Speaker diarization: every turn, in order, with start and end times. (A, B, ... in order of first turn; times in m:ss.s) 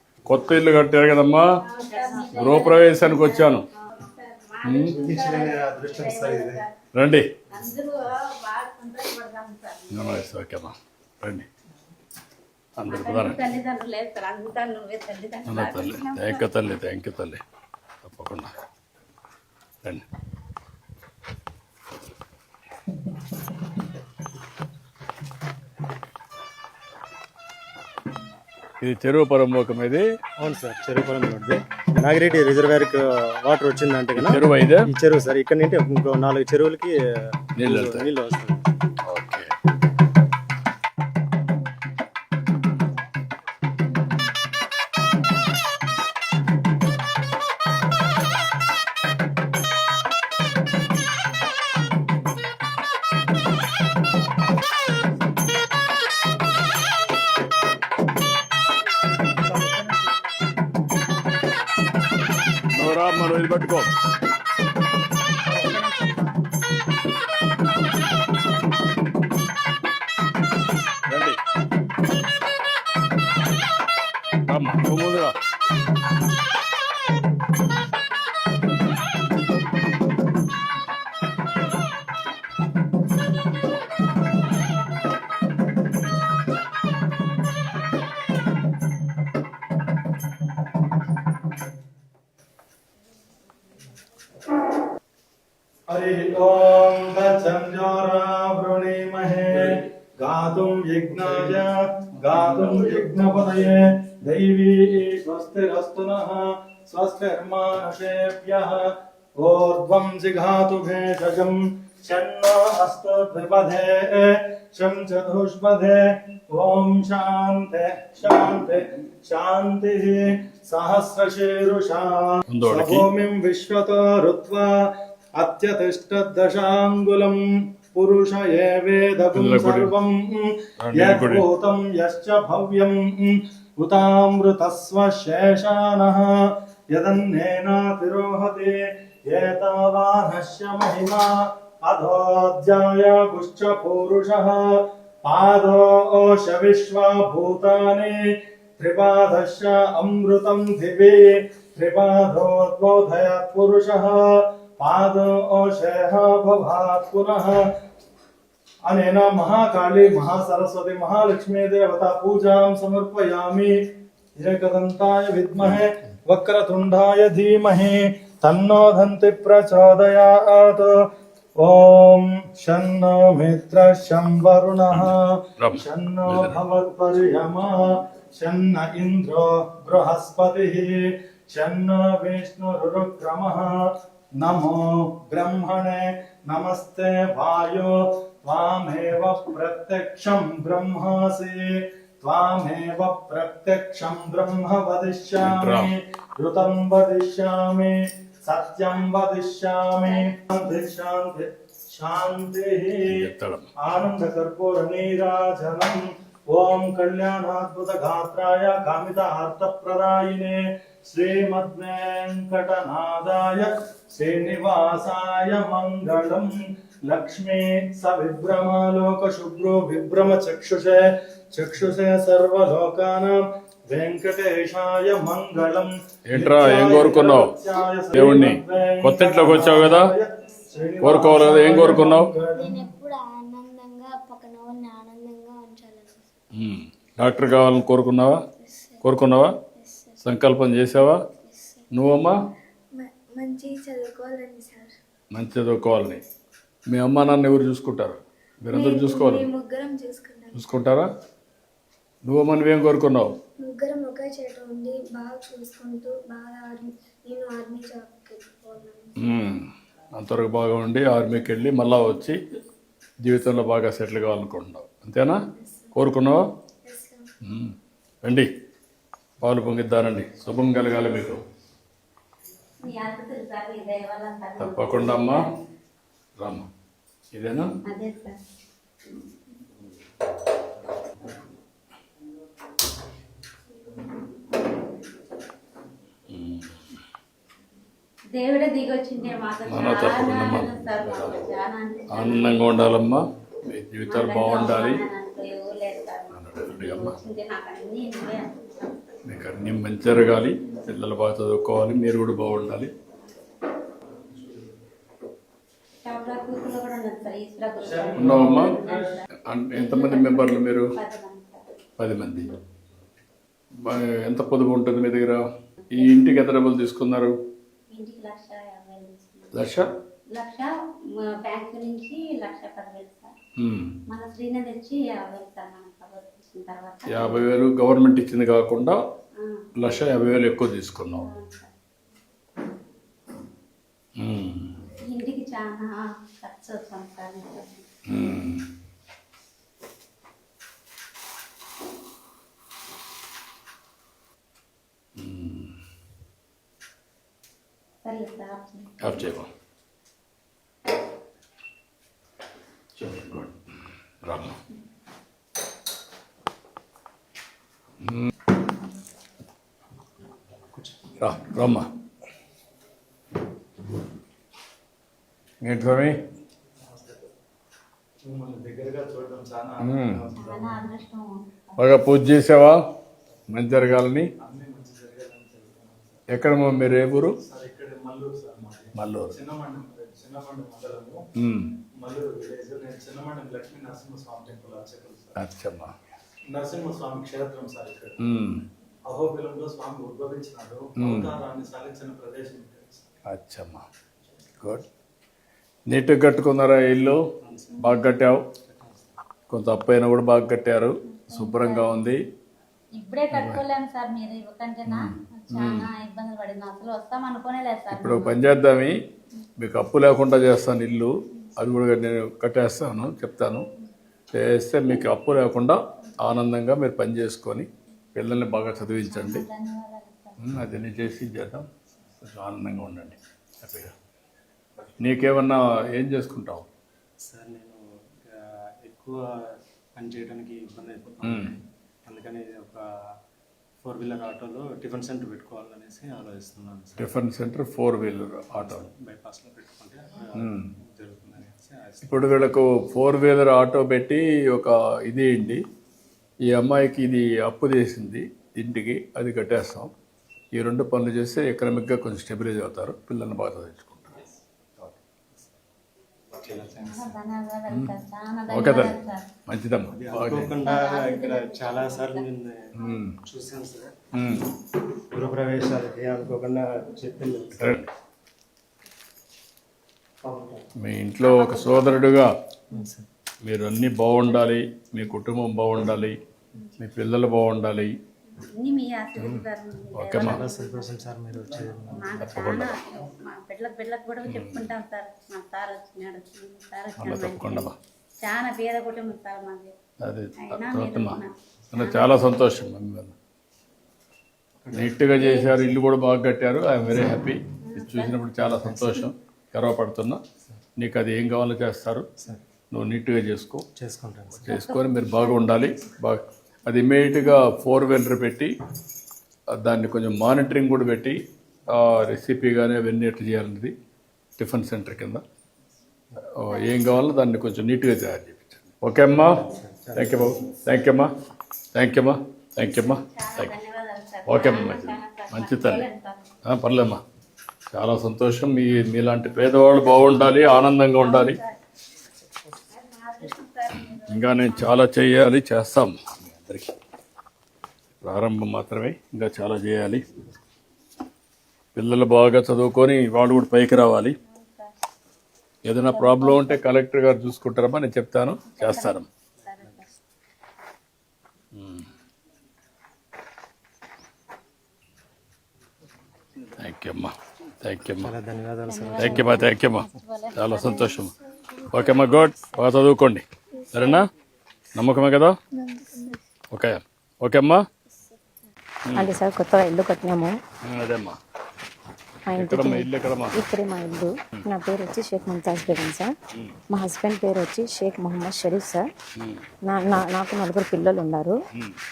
0:00.2-0:01.6 A
0:01.6-0:06.7 B
0:02.3-0:03.7 A
0:04.6-0:04.9 A
0:04.9-0:06.6 C
0:06.9-0:07.3 A
0:07.5-0:10.2 B
0:09.9-0:11.5 A
0:12.8-0:13.4 A
0:12.9-0:16.5 B
0:15.4-0:17.4 A
0:18.0-0:18.5 A
0:28.8-0:30.0 A
0:30.4-0:38.6 C
0:34.1-0:34.9 A
0:37.6-0:38.1 A
0:39.0-0:39.5 A
1:02.7-1:03.9 A
1:05.5-1:06.2 B
1:11.1-1:11.4 A
1:14.5-1:15.3 A
1:35.9-2:07.4 D
2:02.5-2:03.1 A
2:07.9-2:37.6 D
2:09.3-2:09.9 A
2:10.8-2:11.5 A
2:38.9-2:43.8 D
2:44.4-2:51.1 D
2:51.6-3:23.3 D
2:54.9-2:56.6 A
3:15.4-3:15.9 A
3:20.0-3:20.3 B
3:23.1-3:23.7 A
3:23.8-3:36.5 D
3:37.1-3:52.8 D
3:46.3-3:47.6 A
3:48.1-3:50.1 A
3:51.0-3:52.3 A
3:52.5-3:56.2 E
3:56.5-3:58.4 A
3:58.6-3:59.1 E
3:59.0-3:59.6 A
3:59.8-4:00.3 E
4:00.2-4:01.2 A
4:01.4-4:01.8 E
4:01.9-4:02.4 A
4:03.0-4:04.9 E
4:05.3-4:06.2 A
4:06.9-4:09.5 A
4:08.7-4:10.7 E
4:10.5-4:11.1 A
4:12.2-4:13.4 A
4:13.6-4:19.2 E
4:19.2-4:22.4 A
4:23.2-4:25.4 A
4:25.5-4:26.0 E
4:25.9-4:26.4 A
4:26.8-4:27.3 E
4:27.4-4:28.5 A
4:29.4-4:31.4 A
4:32.8-4:35.5 B
4:34.6-4:35.5 A
4:36.4-4:36.7 A
4:37.3-4:37.7 A
4:37.9-4:38.4 B
4:46.3-4:46.8 A
4:48.3-4:53.0 B
4:49.7-4:51.4 A
4:52.1-4:55.0 A
4:54.0-4:59.2 B
4:56.3-4:57.2 A
4:59.2-5:02.9 A
5:04.3-5:04.6 D
5:06.0-5:11.6 B
5:07.8-5:09.2 D
5:08.2-5:08.8 A
5:09.4-5:10.9 A
5:12.0-5:12.5 A
5:13.8-5:15.4 A
5:15.9-5:17.3 A
5:15.9-5:16.3 B
5:17.9-5:19.5 B
5:19.5-5:19.9 A
5:20.3-5:23.3 B
5:23.6-5:24.0 A
5:24.1-5:27.4 B
5:27.1-5:29.0 A
5:29.4-5:30.1 B
5:29.8-5:31.3 A
5:31.2-5:31.7 B
5:34.2-5:34.8 A
5:35.0-5:37.9 B
5:38.1-5:38.6 A
5:45.2-5:45.7 A
5:48.0-5:49.3 B
5:49.0-5:49.5 A
5:53.0-5:53.5 A
5:54.2-5:54.6 A
5:58.0-5:58.3 A
6:01.2-6:01.9 A
6:05.6-6:06.2 A
6:06.9-6:07.3 D
6:08.2-6:10.7 D
6:09.8-6:10.3 A
6:10.4-6:11.9 B
6:11.8-6:12.8 A
6:13.5-6:14.3 A
6:14.4-6:16.3 D
6:16.3-6:17.4 A
6:17.4-6:21.2 D
6:18.9-6:19.4 A
6:21.4-6:21.8 A
6:22.0-6:25.4 D
6:25.4-6:25.9 A
6:26.5-6:28.2 D
6:28.2-6:28.6 A
6:29.1-6:33.1 D
6:31.0-6:31.4 A
6:33.3-6:33.8 A
6:35.9-6:37.2 A
6:37.4-6:38.0 C
6:37.8-6:38.4 A
6:38.6-6:39.1 C
6:39.5-6:42.2 A
6:41.1-6:42.0 B
6:43.0-6:48.4 B
6:43.3-6:43.6 A
6:44.9-6:45.9 A
6:47.9-6:49.0 A
6:49.6-6:53.7 A
6:54.3-6:59.4 A
6:59.1-7:00.4 B
7:00.4-7:01.7 A
7:02.2-7:03.9 A
7:05.0-7:06.7 A
7:07.2-7:11.5 C
7:11.2-7:11.5 A
7:12.0-7:12.8 C
7:13.8-7:17.2 C
7:17.0-7:18.9 A
7:18.6-7:22.4 C
7:20.4-7:20.7 A
7:22.0-7:25.6 A
7:26.5-7:29.9 A
7:30.5-7:34.2 A
7:36.3-7:37.2 C
7:36.7-7:39.3 B
7:38.5-7:39.0 A
7:39.5-7:40.5 A
7:39.9-7:43.9 C
7:40.6-7:42.2 B
7:42.8-7:43.2 A
7:44.2-7:44.5 A
7:45.1-7:47.8 C
7:47.6-7:47.9 A
7:50.2-7:50.6 C
7:50.8-7:52.3 A
7:51.4-7:52.0 B
7:52.7-7:53.0 C
7:53.4-7:56.2 A
7:56.8-7:58.0 A
7:58.3-8:00.9 B
7:59.2-8:00.4 A
8:00.2-8:02.2 C
8:01.9-8:07.7 B
8:02.2-8:02.8 A
8:04.3-8:04.6 A
8:07.0-8:07.8 A
8:08.2-8:09.7 B
8:10.0-8:11.2 A
8:10.4-8:12.4 B
8:11.7-8:13.1 A
8:14.6-8:15.7 C
8:14.7-8:20.2 A
8:15.2-8:15.5 B
8:17.6-8:18.2 B
8:18.7-8:19.0 C
8:20.8-8:22.0 A
8:22.7-8:23.6 A
8:23.8-8:24.5 C
8:24.4-8:28.5 A
8:24.5-8:25.7 B
8:29.5-8:33.7 A
8:34.4-8:35.2 A
8:36.3-8:41.1 A
8:39.4-8:40.6 C
8:41.7-8:43.5 A
8:42.8-8:46.3 B
8:44.2-8:45.8 A
8:46.4-8:47.0 A
8:47.7-8:51.4 A
8:50.2-8:51.6 B
8:52.7-8:54.9 B
8:54.1-8:56.7 A
8:58.0-9:00.0 A
9:01.8-9:04.2 A
9:03.8-9:04.8 B
9:05.6-9:09.0 A
9:05.8-9:06.6 B
9:08.5-9:09.9 B
9:11.5-9:11.8 A
9:16.6-9:18.1 A
9:18.0-9:19.6 C
9:18.6-9:21.0 B
9:19.0-9:21.1 A
9:21.0-9:22.7 E
9:21.7-9:24.1 A
9:23.5-9:24.1 E
9:24.7-9:25.4 A
9:25.5-9:26.2 E
9:26.5-9:27.7 A
9:27.9-9:28.2 E
9:28.8-9:29.1 A
9:28.9-9:30.4 F
9:30.6-9:31.2 A
9:32.3-9:36.1 F
9:32.4-9:33.4 A
9:36.7-9:38.9 F
9:39.2-9:39.4 A
9:39.7-9:41.4 F